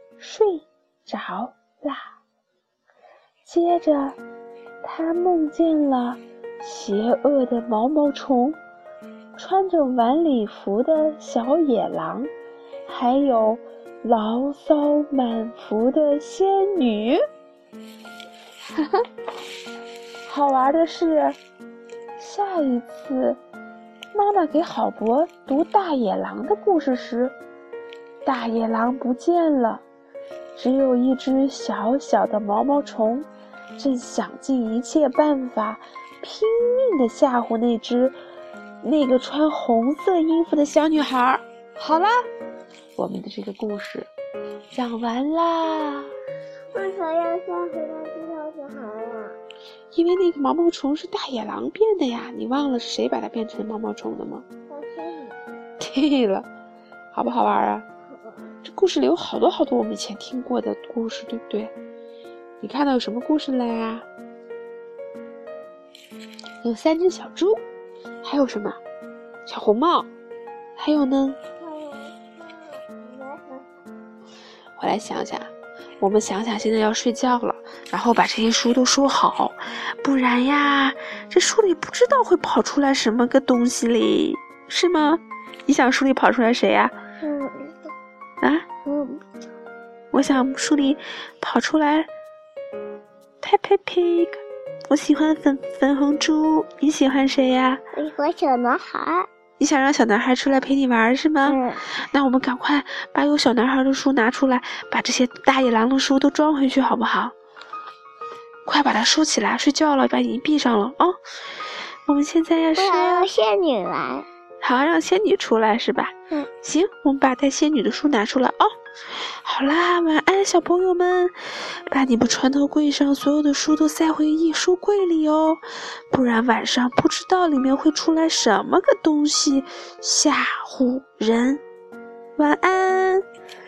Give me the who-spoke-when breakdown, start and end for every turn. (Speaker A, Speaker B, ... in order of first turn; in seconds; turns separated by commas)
Speaker A: 0.2-2.1, Speaker A: 3.4-4.2, Speaker A: 4.8-8.6, Speaker A: 9.3-12.3, Speaker A: 12.8-17.2, Speaker A: 18.8-19.0, Speaker A: 20.2-21.4, Speaker A: 22.2-23.4, Speaker A: 24.1-27.3, Speaker A: 28.2-29.8, Speaker A: 30.5-38.1, Speaker A: 38.8-42.2, Speaker A: 43.0-44.1, Speaker A: 44.7-46.1, Speaker B: 46.7-49.4, Speaker A: 49.9-54.4, Speaker B: 54.7-55.4, Speaker A: 55.8-56.5, Speaker A: 57.1-57.9, Speaker B: 58.1-58.4, Speaker A: 58.6-61.7, Speaker A: 62.6-64.1, Speaker A: 66.6-67.6, Speaker A: 68.2-68.8, Speaker A: 69.5-70.1, Speaker A: 70.8-71.4, Speaker B: 71.6-73.7, Speaker A: 74.8-86.9, Speaker B: 87.2-87.8, Speaker A: 88.4-88.7, Speaker B: 88.8-89.2, Speaker A: 90.1-92.1, Speaker A: 93.4-97.8, Speaker B: 97.9-99.3, Speaker A: 99.6-107.3, Speaker B: 101.4-101.8, Speaker A: 108.7-111.2, Speaker A: 112.0-113.3, Speaker B: 112.7-114.3, Speaker A: 114.6-118.7, Speaker A: 119.4-121.3, Speaker A: 121.9-131.6, Speaker A: 132.4-133.2